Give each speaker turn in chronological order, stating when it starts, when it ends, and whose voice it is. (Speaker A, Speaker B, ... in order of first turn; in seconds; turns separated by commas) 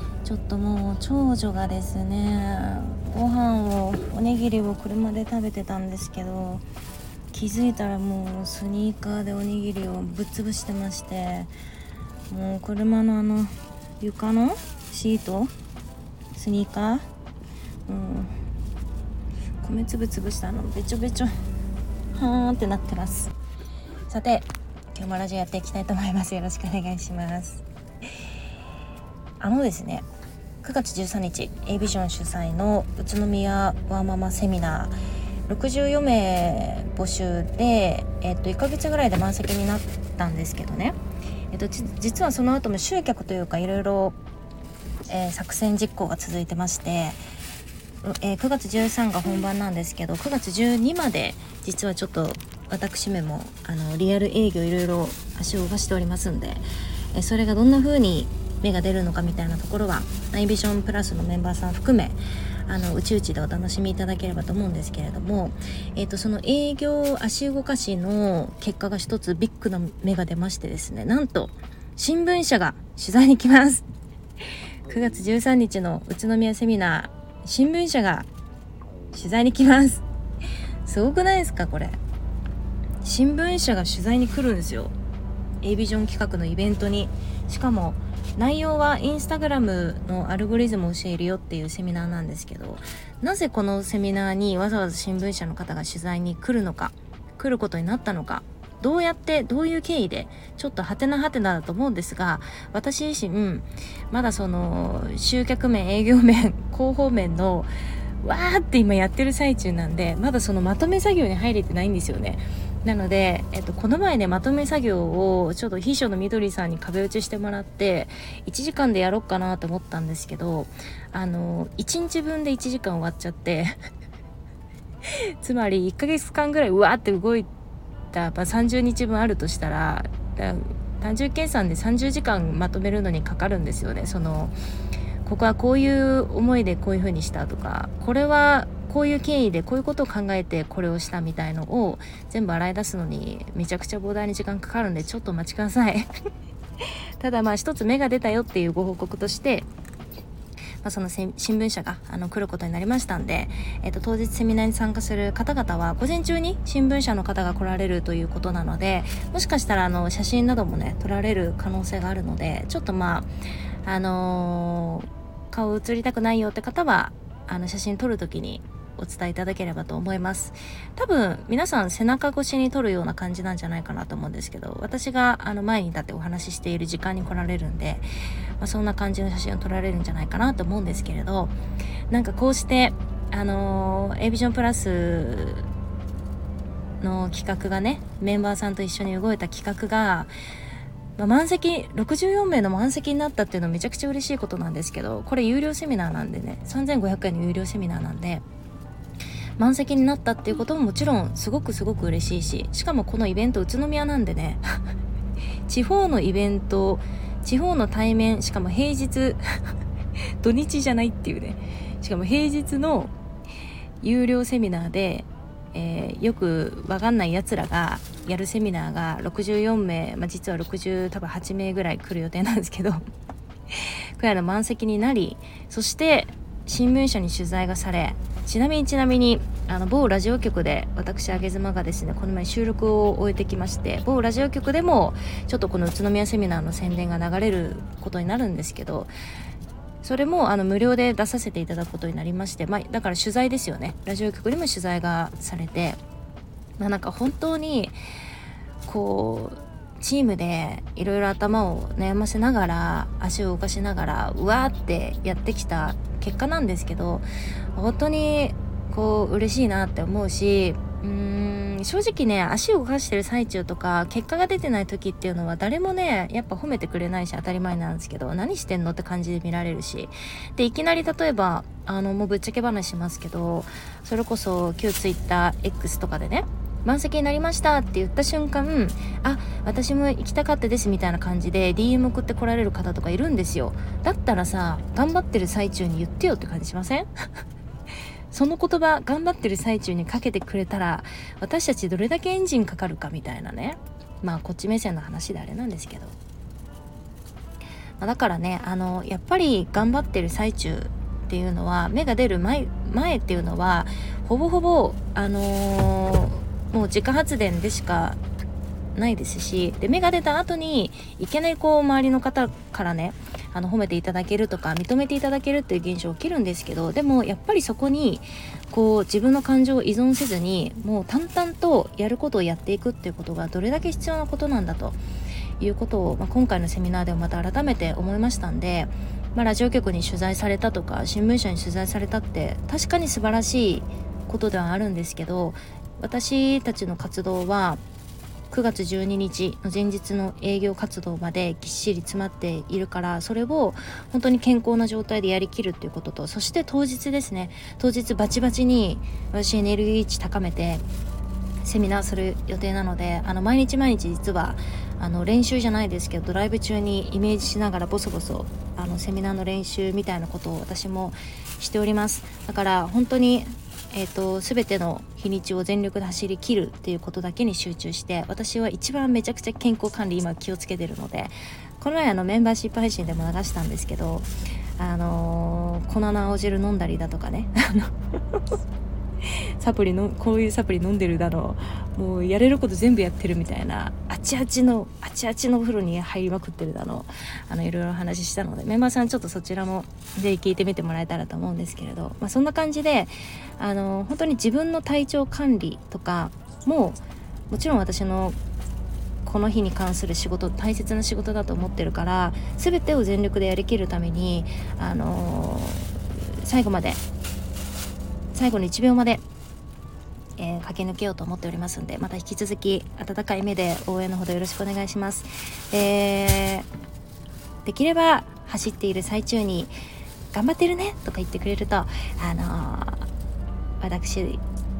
Speaker A: 0.2-6.6, Speaker A: 7.3-11.5, Speaker A: 12.3-15.5, Speaker A: 16.3-17.1, Speaker A: 17.9-18.3, Speaker A: 19.6-21.3, Speaker A: 22.1-23.3, Speaker A: 24.1-27.6, Speaker A: 29.4-30.1, Speaker A: 30.6-35.0, Speaker A: 35.5-41.0, Speaker A: 41.5-44.2, Speaker A: 45.1-47.2, Speaker A: 48.0-73.8, Speaker A: 74.8-78.3, Speaker A: 79.1-80.0, Speaker A: 80.8-82.0, Speaker A: 83.0-84.9, Speaker A: 85.6-107.7, Speaker A: 108.2-123.8, Speaker A: 125.4-127.5, Speaker A: 128.1-134.5, Speaker A: 135.2-146.1, Speaker A: 147.2-149.7, Speaker A: 150.8-163.3, Speaker A: 163.8-178.0, Speaker A: 178.6-181.5, Speaker A: 182.1-185.7, Speaker A: 187.0-190.3, Speaker A: 191.2-198.4, Speaker A: 199.6-204.6, Speaker A: 205.7-209.4, Speaker A: 210.4-213.1, Speaker A: 214.0-223.0, Speaker A: 223.7-239.1, Speaker A: 240.0-246.0, Speaker A: 246.8-248.0, Speaker A: 248.8-287.1, Speaker A: 288.3-296.1, Speaker A: 298.0-308.2, Speaker A: 308.9-325.0, Speaker A: 325.6-337.8, Speaker A: 338.5-350.8, Speaker A: 351.6-378.4, Speaker A: 379.2-398.4, Speaker A: 399.2-407.0, Speaker A: 408.3-409.2, Speaker A: 410.4-416.7, Speaker A: 417.6-419.7, Speaker A: 420.3-423.1, Speaker A: 423.8-424.4